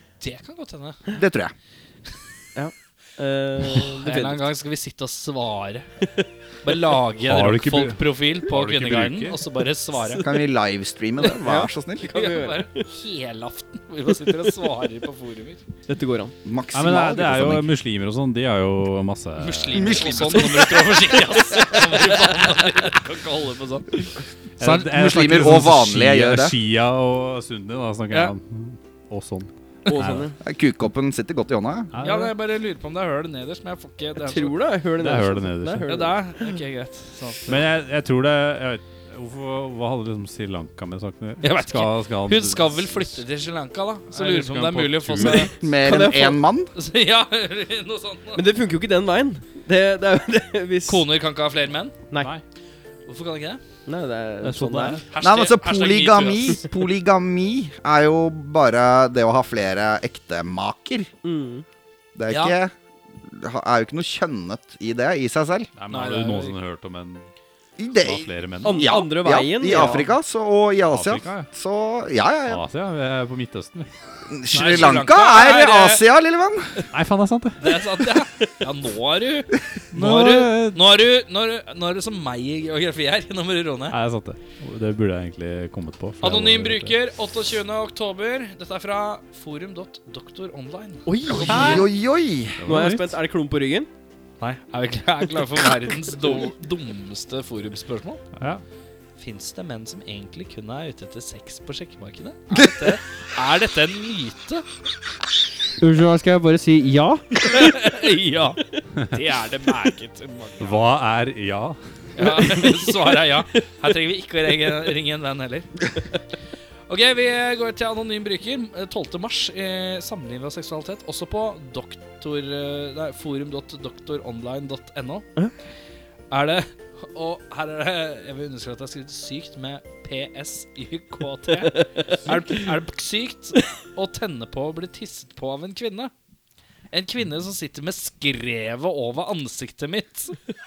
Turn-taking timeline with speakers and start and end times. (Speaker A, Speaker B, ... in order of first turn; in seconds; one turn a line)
Speaker A: 0.2-1.0
Speaker B: 1.1-1.5
Speaker C: 2.5-4.5
Speaker A: 3.8-5.9
Speaker A: 6.6-10.2
Speaker D: 7.2-9.4
Speaker C: 10.0-10.3
Speaker B: 10.2-12.1
Speaker C: 11.2-12.9
Speaker A: 12.1-15.6
Speaker C: 15.9-16.3
Speaker B: 16.4-17.7
Speaker D: 16.7-20.4
Speaker A: 19.4-24.0
Speaker B: 19.7-21.4
Speaker D: 24.6-30.3
Speaker B: 24.7-26.5
Speaker C: 29.9-30.4
Speaker B: 30.4-31.9
Speaker D: 31.9-32.3
Speaker A: 32.0-34.5
Speaker C: 34.2-36.5
Speaker D: 35.0-36.0
Speaker A: 35.9-37.6
Speaker D: 37.5-43.2
Speaker A: 41.4-45.5
Speaker D: 44.1-45.5
Speaker C: 45.2-46.4
Speaker B: 45.5-46.7
Speaker A: 46.7-48.4
Speaker C: 48.3-51.0
Speaker A: 50.9-52.0
Speaker A: 53.0-53.6
Speaker C: 53.9-55.0
Speaker D: 54.4-55.0
Speaker A: 55.0-56.6
Speaker B: 55.2-61.1
Speaker C: 61.2-61.6
Speaker B: 62.1-65.7
Speaker A: 62.3-62.6
Speaker D: 65.8-67.3
Speaker A: 65.9-66.5
Speaker B: 67.8-72.6
Speaker D: 68.0-68.9
Speaker C: 68.6-70.1
Speaker D: 69.7-70.0
Speaker D: 70.8-71.5
Speaker D: 72.5-73.9
Speaker B: 74.3-76.8
Speaker A: 74.5-76.0
Speaker D: 76.9-77.6
Speaker A: 77.6-84.0
Speaker D: 79.9-80.8
Speaker D: 83.9-86.9
Speaker A: 86.2-91.8
Speaker C: 91.0-91.9
Speaker B: 91.3-92.6
Speaker D: 92.6-93.2
Speaker C: 92.7-93.9
Speaker A: 94.4-98.3
Speaker D: 98.4-98.6
Speaker A: 99.2-104.6
Speaker B: 102.5-103.0
Speaker C: 105.8-107.8
Speaker A: 107.4-110.8
Speaker D: 110.6-111.8
Speaker A: 112.2-115.9
Speaker C: 112.2-113.1
Speaker A: 116.9-125.3
Speaker A: 126.3-136.1
Speaker C: 131.8-132.4
Speaker A: 136.9-140.3